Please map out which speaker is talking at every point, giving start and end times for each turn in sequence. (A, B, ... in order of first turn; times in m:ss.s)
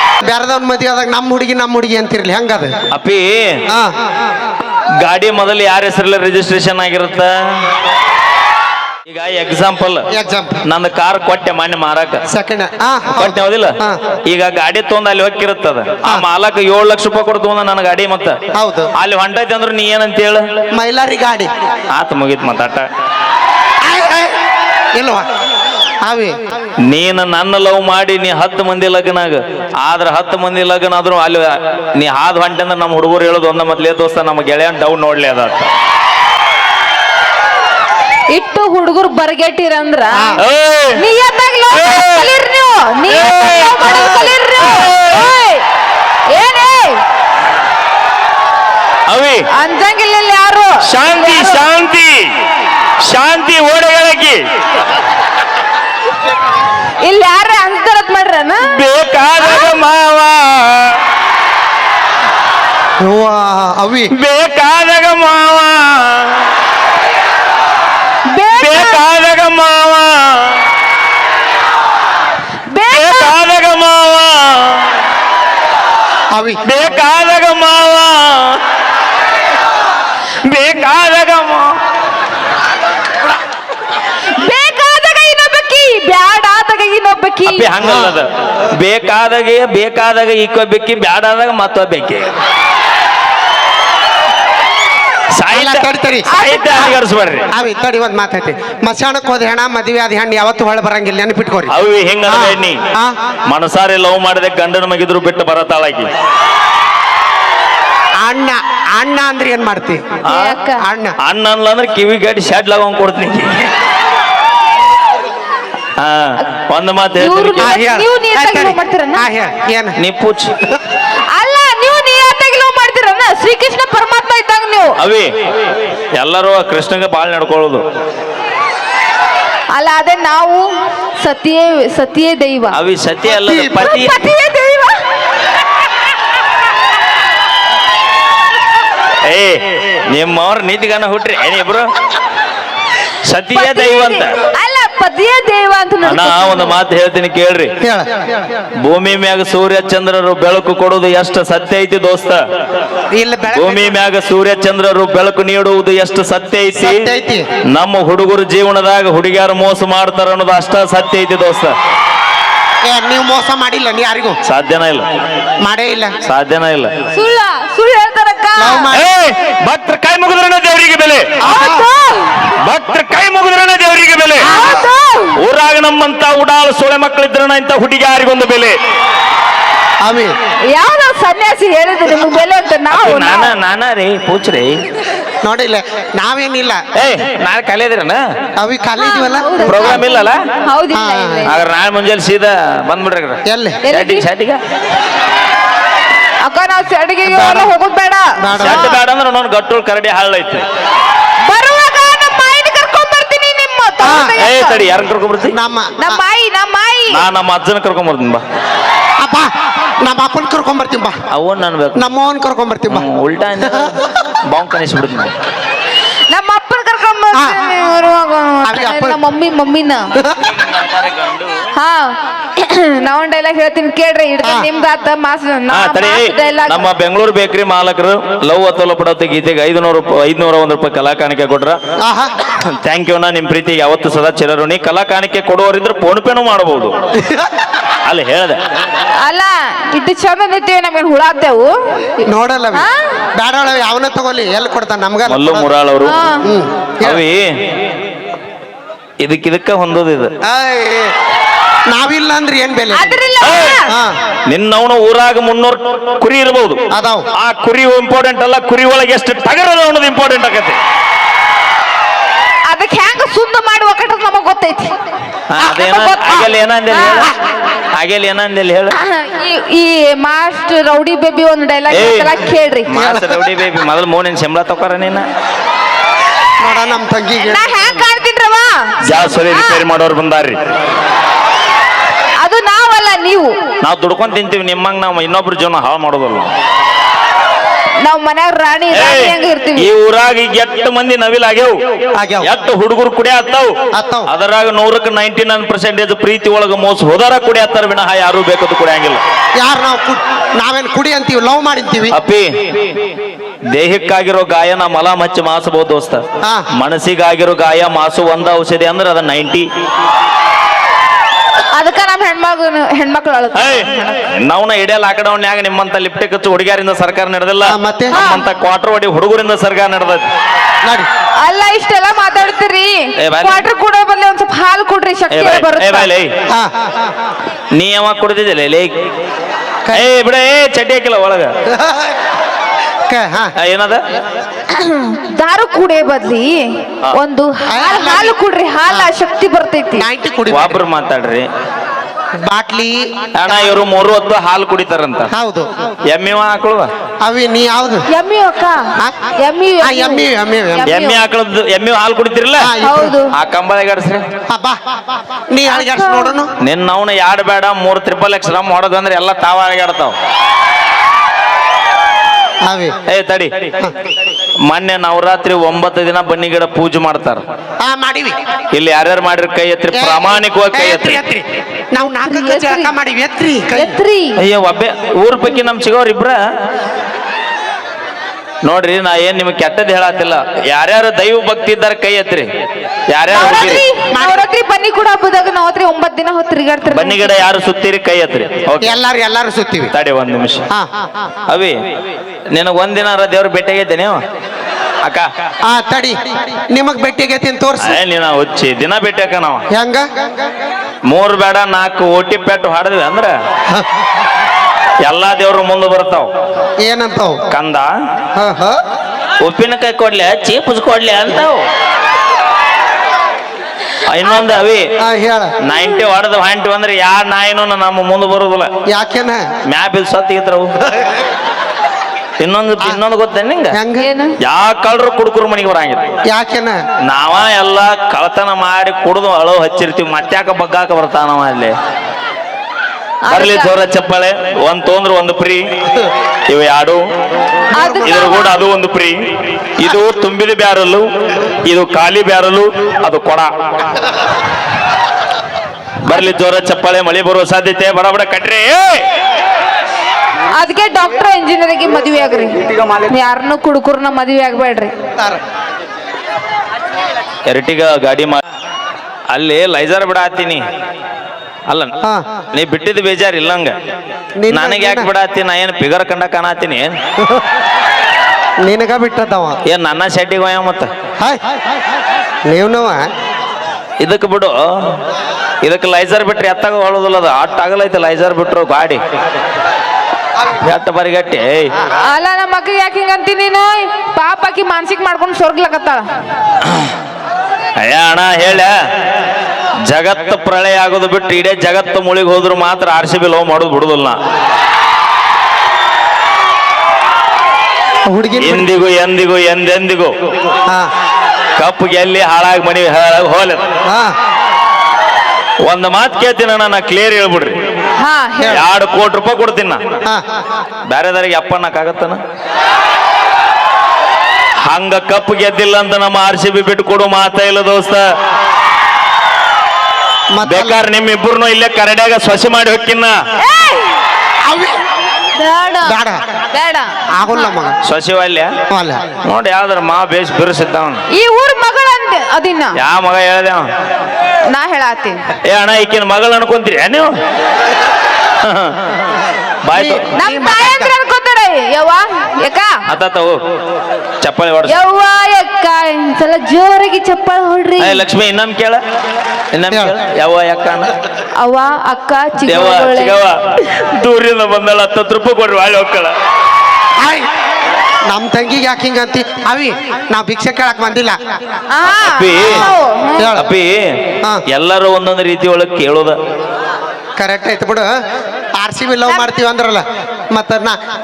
0:00.2-0:02.7 A
0:02.9-0:03.6 B
0:03.7-0:03.9 A
0:05.0-0:07.6 B
0:09.1-0:10.1 B
0:10.1-0:10.6 A
0:10.6-0:12.2 B
0:12.3-0:14.0 A
0:13.2-0:18.4 B
0:18.5-0:18.9 A
0:19.0-0:20.4 B
0:20.7-0:21.5 A
0:21.9-0:22.9 B
0:23.8-0:24.4 A
0:24.9-0:25.2 A
0:26.0-0:26.4 A
0:26.9-0:35.6 B
0:38.3-0:40.4 C
0:40.4-0:41.0 B
0:41.0-0:45.6 C
0:41.7-0:42.3 B
0:43.1-0:45.3 B
0:46.3-0:47.0 C
0:49.1-0:49.4 B
0:49.5-0:51.7 C
0:50.8-0:52.3 B
0:53.0-0:54.4 B
0:57.0-0:58.8 C
0:58.6-1:01.0 B
0:59.4-0:59.8 C
1:03.0-1:04.1 A
1:04.1-1:06.5 B
1:08.3-1:09.0 C
1:08.6-1:10.6 B
1:12.7-1:13.3 C
1:12.9-1:15.0 B
1:16.3-1:16.6 A
1:16.6-1:18.6 B
1:20.4-1:21.7 B
1:24.4-1:27.7 C
1:27.4-1:32.3 B
1:27.8-1:28.2 A
1:35.3-1:37.5 B
1:35.5-1:36.3 A
1:36.2-1:37.0 C
1:37.5-1:41.7 A
1:41.7-1:42.8 B
1:42.3-1:43.1 A
1:43.5-1:46.1 B
1:48.2-1:50.1 A
1:50.2-1:50.6 B
1:50.3-1:50.8 C
1:50.8-1:51.1 A
1:51.2-1:53.7 B
1:56.0-1:57.8 B
1:57.2-1:59.3 C
1:57.6-1:59.9 A
2:00.0-2:00.5 B
2:01.3-2:05.0 C
2:05.0-2:05.3 B
2:06.2-2:07.8 B
2:09.7-2:10.6 C
2:11.2-2:12.8 C
2:12.7-2:14.2 B
2:13.4-2:15.0 C
2:19.2-2:21.8 B
2:23.2-2:24.4 B
2:23.5-2:26.8 C
2:26.0-2:27.7 B
2:27.8-2:28.5 A
2:28.8-2:32.4 B
2:33.1-2:33.9 A
2:33.5-2:37.1 B
2:36.7-2:37.4 A
2:37.7-2:41.7 B
2:42.8-2:44.4 A
2:44.4-2:45.0 B
2:45.6-2:46.1 A
2:46.2-2:46.9 B
2:47.1-2:48.9 C
2:48.6-2:49.1 A
2:48.9-2:51.4 B
2:51.4-2:52.5 C
2:51.4-2:51.9 A
2:52.6-2:54.6 B
2:54.4-2:54.9 A
2:54.5-2:55.4 C
2:55.4-2:58.8 B
3:00.0-3:00.3 A
3:00.7-3:03.5 C
3:02.9-3:04.8 B
3:05.4-3:06.8 A
3:06.9-3:08.2 B
3:08.6-3:10.0 A
3:09.0-3:11.5 C
3:09.6-3:10.4 B
3:10.9-3:11.5 A
3:11.4-3:14.6 B
3:13.5-3:13.8 A
3:13.8-3:14.2 C
3:16.4-3:19.0 C
3:17.2-3:17.7 A
3:18.4-3:19.0 A
3:18.6-3:20.6 B
3:21.4-3:24.9 C
3:24.0-3:24.4 A
3:24.4-3:25.6 B
3:25.5-3:26.2 A
3:26.0-3:27.2 C
3:27.1-3:28.4 B
3:29.2-3:29.5 A
3:30.0-3:31.1 A
3:31.3-3:32.1 B
3:32.0-3:33.0 A
3:32.9-3:35.3 B
3:33.6-3:34.1 A
3:36.3-3:40.1 C
3:37.3-3:37.6 A
3:38.6-3:39.2 A
3:40.1-3:40.4 A
3:40.6-3:41.3 B
3:41.7-3:46.8 C
3:44.4-3:44.7 A
3:45.7-3:51.8 B
3:52.0-3:52.3 A
3:52.6-3:57.0 B
3:57.2-3:57.5 A
3:58.0-3:58.6 B
3:59.2-4:03.2 C
4:02.2-4:05.7 A
4:05.3-4:06.2 B
4:06.0-4:06.5 C
4:06.4-4:07.2 A
4:07.0-4:07.5 B
4:09.2-4:10.3 B
4:10.4-4:11.1 A
4:11.9-4:13.2 A
4:12.9-4:13.9 C
4:13.4-4:13.8 B
4:13.9-4:14.2 A
4:14.5-4:16.8 B
4:16.9-4:17.3 A
4:17.4-4:20.8 B
4:22.7-4:24.9 C
4:25.5-4:27.3 B
4:25.6-4:27.3 C
4:28.0-4:29.0 B
4:28.9-4:33.0 C
4:31.9-4:32.3 B
4:32.9-4:35.2 B
4:33.0-4:33.2 A
4:36.6-4:37.7 A
4:37.5-4:39.8 C
4:39.0-4:40.6 B
4:42.4-4:43.5 C
4:43.8-4:46.5 B
4:48.0-4:49.9 C
4:48.9-4:51.8 B
4:52.2-4:52.5 A
4:52.4-4:53.7 B
4:53.9-4:54.3 A
4:54.3-4:59.2 B
4:59.6-5:02.1 A
5:02.1-5:03.0 B
5:03.7-5:06.2 B
5:06.4-5:06.7 A
5:06.8-5:09.6 B
5:11.7-5:13.9 C
5:13.5-5:20.2 B
5:17.6-5:18.2 A
5:18.1-5:18.4 C
5:20.8-5:21.1 A
5:21.4-5:26.1 C
5:23.2-5:23.6 B
5:25.3-5:26.3 B
5:26.5-5:26.9 A
5:27.7-5:28.9 B
5:29.9-5:31.5 B
5:31.7-5:32.1 A
5:33.1-5:33.5 A
5:33.6-5:34.0 B
5:34.7-5:40.1 C
5:37.7-5:39.1 A
5:39.9-5:40.8 A
5:40.5-5:41.4 B
5:42.4-5:43.8 A
5:43.3-5:45.3 B
5:45.3-5:45.7 A
5:46.1-5:46.9 B
5:47.2-5:48.0 A
5:48.1-5:48.8 C
5:49.0-5:49.3 A
5:49.4-5:51.2 C
5:49.8-5:50.9 A
5:50.9-5:52.7 B
5:52.6-5:53.1 A
5:52.8-5:53.3 C
5:53.3-5:54.2 B
5:54.5-5:54.8 A
5:55.5-5:56.5 A
5:55.7-5:56.3 C
5:56.6-6:00.2 B
6:02.6-6:02.9 A
6:03.1-6:03.7 B
6:04.7-6:07.4 B
6:07.8-6:08.3 A
6:08.7-6:11.2 B
6:09.9-6:14.0 A
6:12.2-6:12.9 C
6:13.7-6:14.4 C
6:14.4-6:16.4 B
6:18.6-6:22.5 B
6:23.1-6:23.8 B
6:23.3-6:27.4 C
6:24.1-6:24.4 A
6:26.8-6:28.9 B
6:28.8-6:29.9 A
6:29.9-6:30.6 B
6:31.5-6:31.8 B
6:32.5-6:34.2 B
6:35.6-6:38.0 A
6:37.8-6:39.6 B
6:39.7-6:40.0 A
6:41.1-6:43.3 B
6:45.0-6:46.3 B
6:46.8-6:47.4 A
6:47.5-6:47.9 B
6:48.4-6:48.8 A
6:49.4-6:51.6 B
6:54.1-6:54.8 B
6:55.0-6:55.5 A
6:55.6-6:58.7 B
6:58.8-6:59.4 A
6:59.7-7:00.7 B
7:02.4-7:03.8 B
7:03.7-7:04.1 A
7:04.0-7:04.4 C
7:04.4-7:06.0 B
7:06.3-7:06.8 A
7:07.0-7:11.7 B
7:13.2-7:13.8 C
7:13.3-7:15.6 B
7:16.5-7:17.0 B
7:17.7-7:18.6 C
7:17.8-7:18.3 A
7:18.0-7:21.1 B
7:21.6-7:23.5 B
7:26.0-7:29.0 B
7:30.5-7:34.9 C
7:37.5-7:38.4 B
7:39.3-7:40.6 B
7:41.7-7:42.0 B
7:42.5-7:43.7 B
7:44.4-7:45.1 A
7:44.5-7:46.9 B
7:48.6-7:49.6 A
7:49.7-7:50.9 B
7:52.5-7:53.0 A
7:54.0-7:54.6 B
7:55.6-7:59.0 B
8:00.6-8:01.7 B
8:02.0-8:06.0 C
8:06.6-8:06.9 B
8:07.8-8:08.7 B
8:09.8-8:14.2 B
8:18.1-8:18.7 A
8:18.4-8:20.1 B
8:21.6-8:23.7 B
8:23.8-8:24.1 A
8:25.6-8:27.6 B
8:28.0-8:28.6 C
8:28.4-8:29.8 B
8:30.9-8:32.2 B
8:34.6-8:38.0 B
8:40.3-8:40.8 A
8:40.4-8:43.2 B
8:43.4-8:44.0 C
8:44.4-8:44.7 A
8:45.3-8:46.0 C
8:45.8-8:46.2 A
8:46.5-8:47.5 C
8:47.1-8:47.8 A
8:47.8-8:48.5 B
8:48.7-8:49.0 A
8:49.2-8:51.0 B
8:51.1-8:52.8 C
8:52.8-8:53.6 B
8:54.5-8:55.2 C
8:55.4-8:57.1 B
8:58.4-8:58.8 B
8:59.6-9:00.0 B
8:59.7-9:00.9 A
9:00.1-9:02.7 C
9:02.9-9:03.4 B
9:04.2-9:04.8 B
9:04.7-9:08.0 C
9:07.8-9:08.8 B
9:09.5-9:10.9 B
9:11.4-9:13.2 C
9:12.4-9:16.1 B
9:17.0-9:17.3 A
9:18.0-9:21.2 A
9:21.7-9:23.4 C
9:21.8-9:22.6 B
9:22.4-9:23.5 A
9:23.3-9:23.9 B
9:24.5-9:26.2 B
9:27.2-9:27.9 A
9:28.6-9:30.8 A